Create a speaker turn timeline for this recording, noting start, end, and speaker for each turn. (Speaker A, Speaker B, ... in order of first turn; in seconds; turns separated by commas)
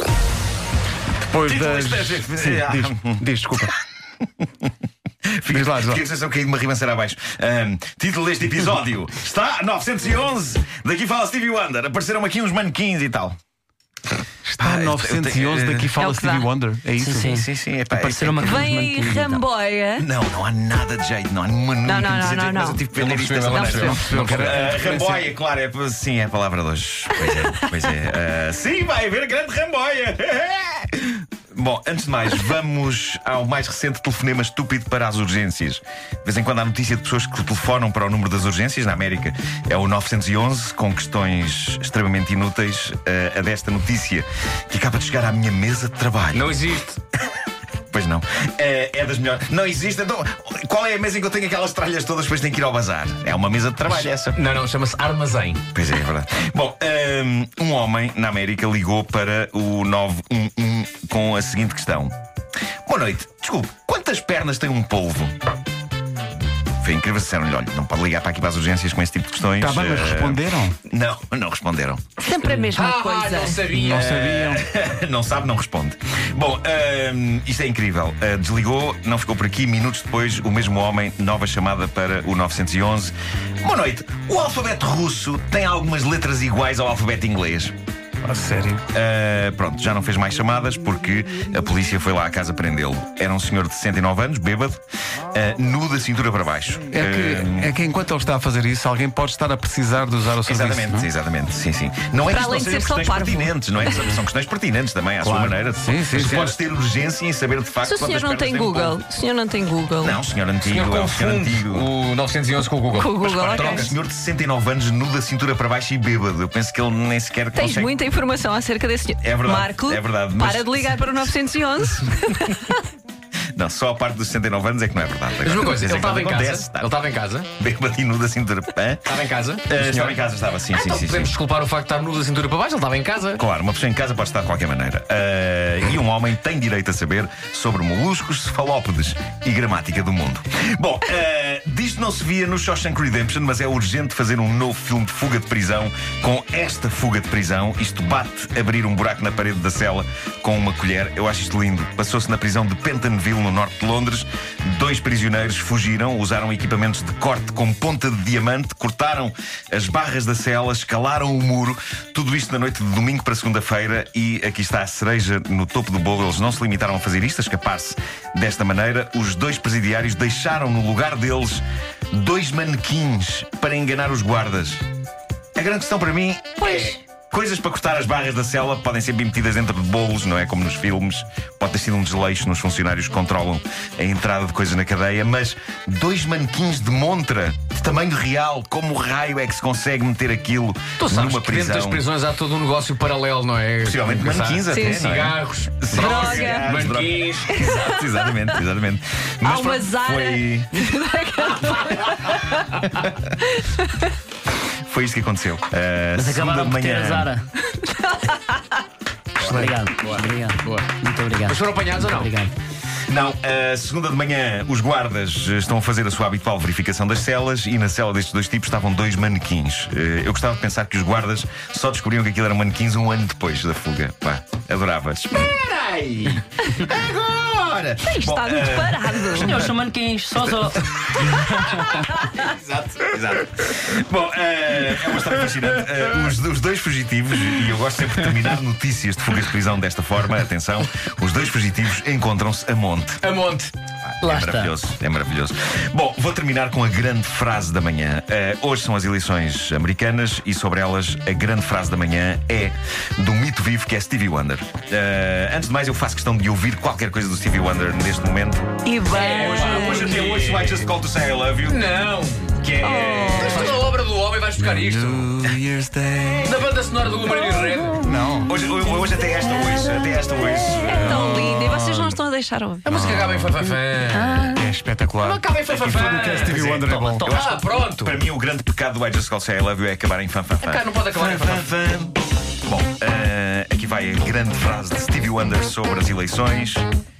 Speaker A: 1.3-3.7, Speaker B: 1.4-3.2, Speaker B: 5.2-13.3, Speaker A: 5.5-6.0, Speaker A: 14.4-17.4, Speaker B: 14.6-15.9, Speaker C: 15.9-16.5, Speaker D: 17.0-17.4, Speaker B: 17.2-18.7, Speaker A: 17.9-18.4, Speaker D: 18.0-19.4, Speaker C: 18.4-20.1, Speaker B: 20.0-46.6, Speaker C: 21.8-22.9, Speaker E: 22.9-25.1, Speaker C: 23.5-24.0, Speaker A: 23.9-25.2, Speaker E: 46.3-47.0, Speaker B: 47.9-54.4, Speaker E: 53.9-55.6, Speaker B: 55.7-62.1, Speaker B: 62.9-65.3, Speaker B: 66.8-72.0, Speaker A: 69.6-70.8, Speaker C: 72.2-73.7, Speaker E: 72.3-74.4, Speaker A: 73.7-74.6, Speaker B: 73.9-87.7, Speaker A: 88.2-88.8, Speaker B: 88.9-97.7, Speaker A: 96.9-101.1, Speaker B: 100.4-109.0, Speaker C: 102.2-103.5, Speaker A: 105.8-106.5, Speaker C: 107.8-110.2, Speaker B: 110.0-111.9, Speaker E: 110.6-113.9, Speaker C: 112.9-113.9, Speaker B: 113.3-118.0, Speaker C: 117.5-122.8, Speaker B: 119.2-121.2, Speaker B: 123.5-126.9, Speaker E: 125.4-127.5, Speaker B: 127.6-131.3, Speaker E: 129.0-133.4, Speaker B: 133.4-174.8, Speaker B: 175.6-192.0, Speaker C: 176.6-177.0, Speaker E: 191.0-197.6, Speaker B: 193.8-200.8, Speaker C: 194.7-195.1, Speaker C: 195.9-196.7, Speaker C: 197.5-198.5, Speaker C: 199.4-202.8, Speaker B: 202.8-203.2, Speaker C: 203.4-204.1, Speaker B: 204.8-207.3, Speaker D: 206.1-207.4, Speaker C: 207.7-208.4, Speaker D: 209.4-212.5, Speaker E: 209.4-210.9, Speaker E: 211.4-212.3, Speaker B: 213.1-229.7, Speaker C: 228.0-229.5, Speaker D: 229.3-230.9, Speaker B: 230.7-243.2, Speaker E: 243.2-243.7, Speaker B: 244.0-261.8, Speaker D: 244.2-244.7, Speaker C: 258.8-260.2, Speaker E: 259.1-260.9, Speaker E: 261.7-265.3, Speaker C: 262.8-263.9, Speaker A: 264.6-266.4, Speaker E: 266.4-268.1, Speaker A: 268.0-268.5, Speaker B: 268.4-271.4, Speaker C: 270.8-273.0, Speaker A: 270.8-272.1, Speaker E: 272.8-274.4, Speaker A: 272.9-273.5, Speaker D: 274.1-274.6, Speaker A: 274.4-277.3, Speaker E: 275.2-278.2, Speaker D: 276.8-277.5, Speaker B: 277.2-286.8, Speaker E: 280.6-281.7